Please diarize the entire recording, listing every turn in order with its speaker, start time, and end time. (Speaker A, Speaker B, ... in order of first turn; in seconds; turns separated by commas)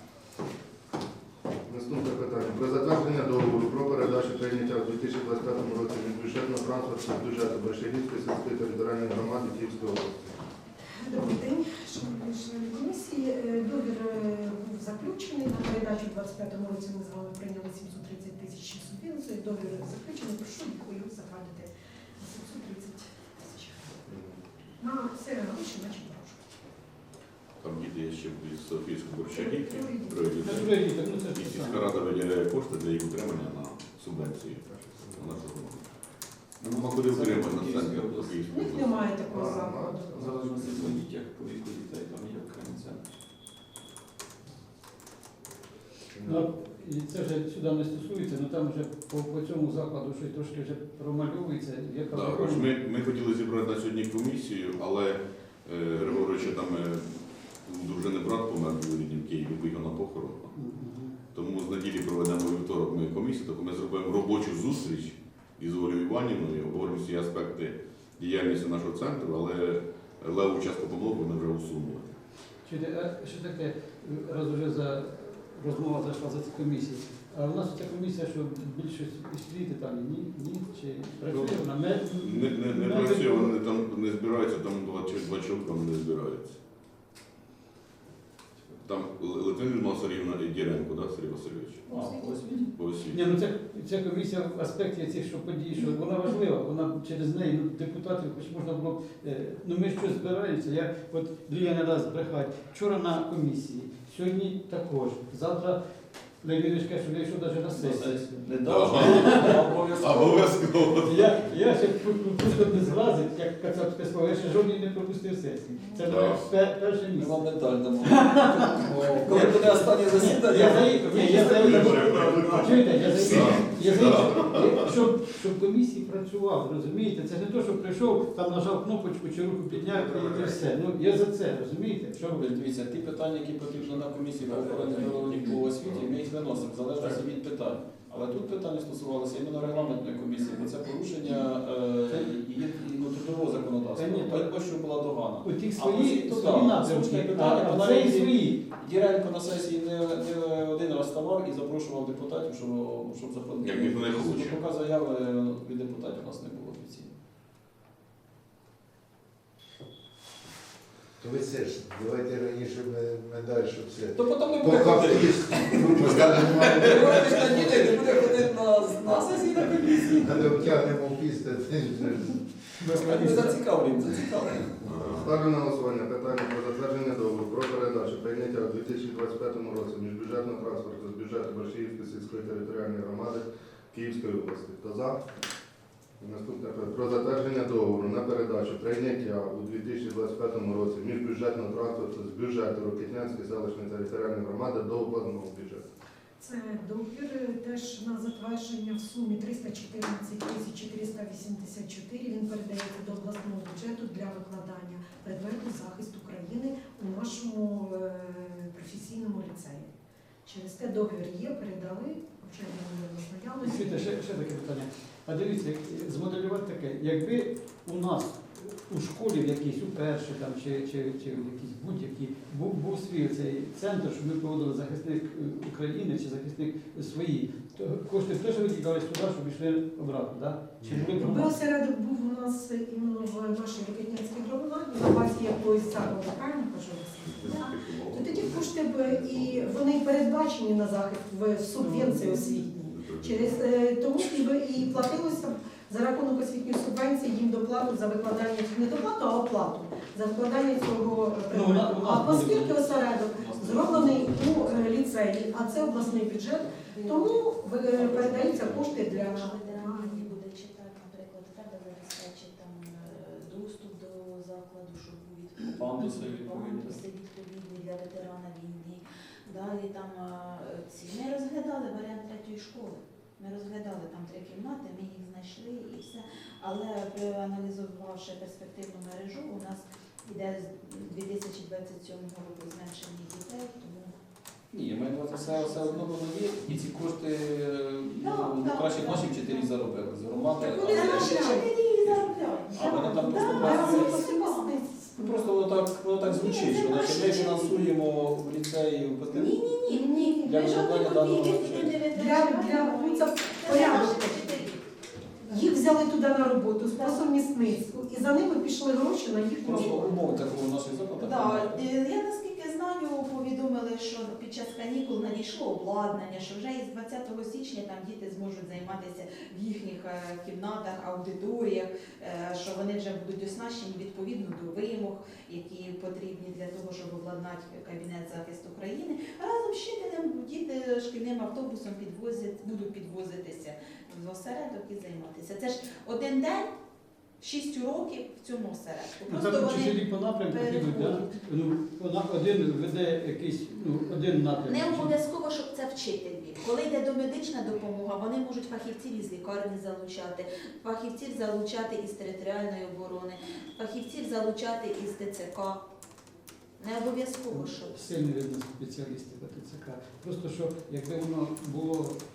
Speaker A: 1.7-10.2, Speaker B: 10.9-23.9, Speaker A: 24.1-24.4, Speaker B: 24.8-26.5, Speaker C: 27.6-35.9, Speaker B: 29.3-30.3, Speaker D: 30.4-31.9, Speaker A: 34.7-35.3, Speaker C: 36.6-39.2, Speaker E: 36.6-38.5, Speaker B: 38.5-40.3, Speaker A: 39.2-40.8, Speaker E: 40.1-43.0, Speaker A: 46.1-46.5, Speaker D: 46.2-52.7, Speaker C: 52.1-60.5, Speaker D: 60.5-61.1, Speaker C: 61.3-72.1, Speaker D: 72.6-83.5, Speaker C: 81.3-86.6, Speaker C: 88.8-92.0, Speaker E: 91.9-92.7, Speaker C: 92.7-93.2, Speaker D: 93.1-105.8, Speaker D: 106.4-108.4, Speaker E: 107.7-110.7, Speaker C: 108.7-111.3, Speaker D: 109.0-109.5, Speaker D: 111.0-117.4, Speaker C: 116.0-116.5, Speaker E: 117.2-123.6, Speaker D: 118.1-132.3, Speaker C: 121.2-124.9, Speaker F: 129.8-130.6, Speaker E: 132.2-157.1, Speaker F: 134.5-135.3, Speaker D: 143.9-144.5, Speaker D: 145.4-148.6, Speaker C: 153.6-154.6, Speaker F: 161.2-168.0, Speaker E: 164.2-170.7, Speaker F: 170.2-172.4, Speaker D: 172.8-173.6, Speaker E: 172.9-174.7, Speaker C: 174.8-175.3, Speaker A: 175.1-185.2, Speaker A: 186.2-195.8, Speaker B: 196.4-209.9, Speaker B: 210.4-214.1, Speaker D: 213.6-231.6, Speaker B: 231.2-260.3, Speaker C: 237.2-239.7, Speaker D: 241.8-242.7, Speaker C: 242.9-243.5, Speaker D: 251.5-252.7, Speaker E: 252.4-255.0, Speaker G: 256.9-284.2, Speaker E: 258.0-258.8, Speaker E: 265.6-267.0, Speaker E: 284.7-294.2, Speaker G: 285.3-286.0, Speaker G: 288.2-289.7, Speaker G: 290.6-294.7, Speaker B: 290.6-291.7, Speaker B: 293.4-295.5, Speaker E: 295.2-299.6, Speaker G: 296.2-297.9, Speaker G: 299.3-304.8, Speaker B: 299.9-300.6, Speaker E: 300.4-302.0, Speaker B: 302.1-304.6, Speaker G: 305.4-305.7, Speaker B: 305.5-310.1, Speaker G: 306.9-307.3, Speaker E: 309.6-311.9, Speaker G: 309.7-310.0, Speaker G: 311.2-336.7, Speaker G: 337.4-341.4, Speaker D: 339.3-345.1, Speaker G: 344.7-355.8, Speaker G: 356.8-357.9, Speaker D: 357.5-362.2